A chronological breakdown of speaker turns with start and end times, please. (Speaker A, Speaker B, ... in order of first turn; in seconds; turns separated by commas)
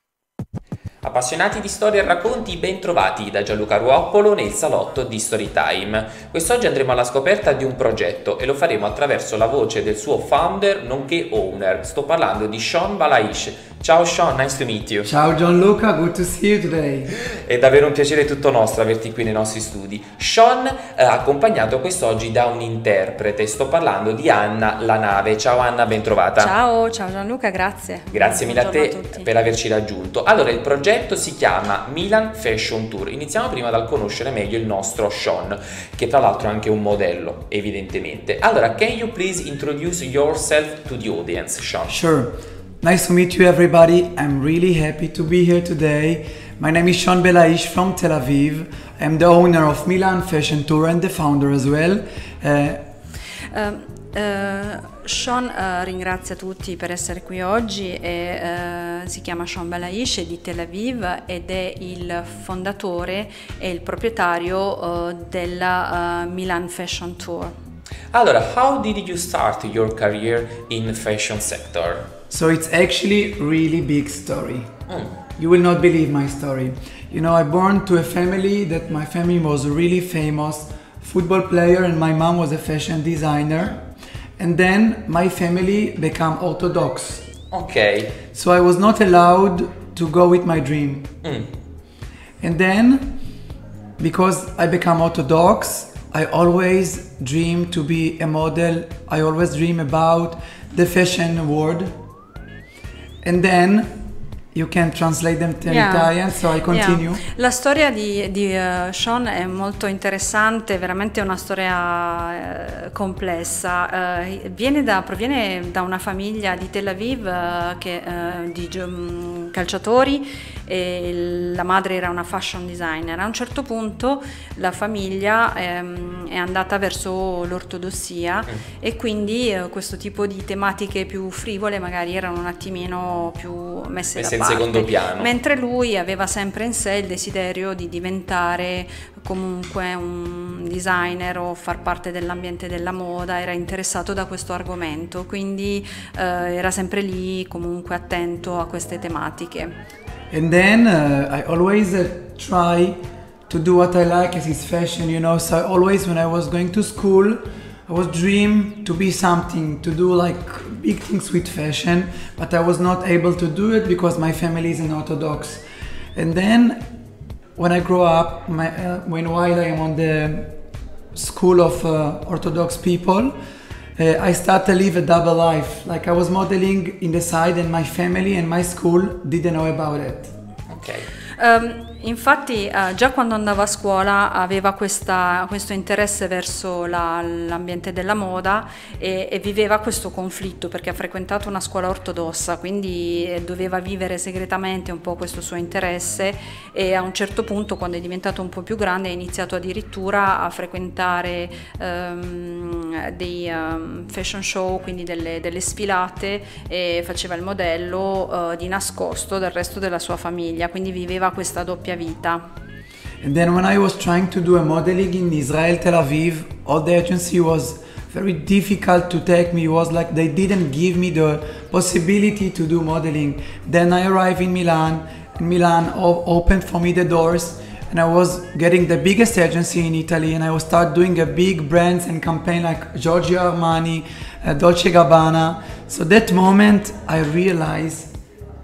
Speaker A: 1.0-15.1, Speaker B: 15.0-17.1, Speaker A: 17.1-26.5, Speaker C: 26.4-29.3, Speaker A: 28.1-42.0, Speaker B: 41.9-52.8, Speaker C: 53.5-67.5, Speaker A: 68.1-72.0, Speaker B: 72.3-74.7, Speaker B: 75.3-83.8, Speaker B: 84.4-87.3, Speaker A: 87.5-88.2, Speaker B: 88.3-91.1, Speaker A: 91.2-91.5, Speaker B: 92.4-93.2, Speaker B: 94.0-101.9, Speaker B: 103.2-103.9, Speaker B: 104.5-107.2, Speaker C: 105.7-149.7, Speaker A: 134.2-135.3, Speaker B: 150.3-153.0, Speaker B: 153.5-165.6, Speaker B: 166.1-166.8, Speaker B: 167.6-170.5, Speaker B: 171.1-173.3, Speaker B: 174.0-180.3, Speaker A: 180.7-181.1, Speaker C: 181.4-212.4, Speaker B: 213.2-238.1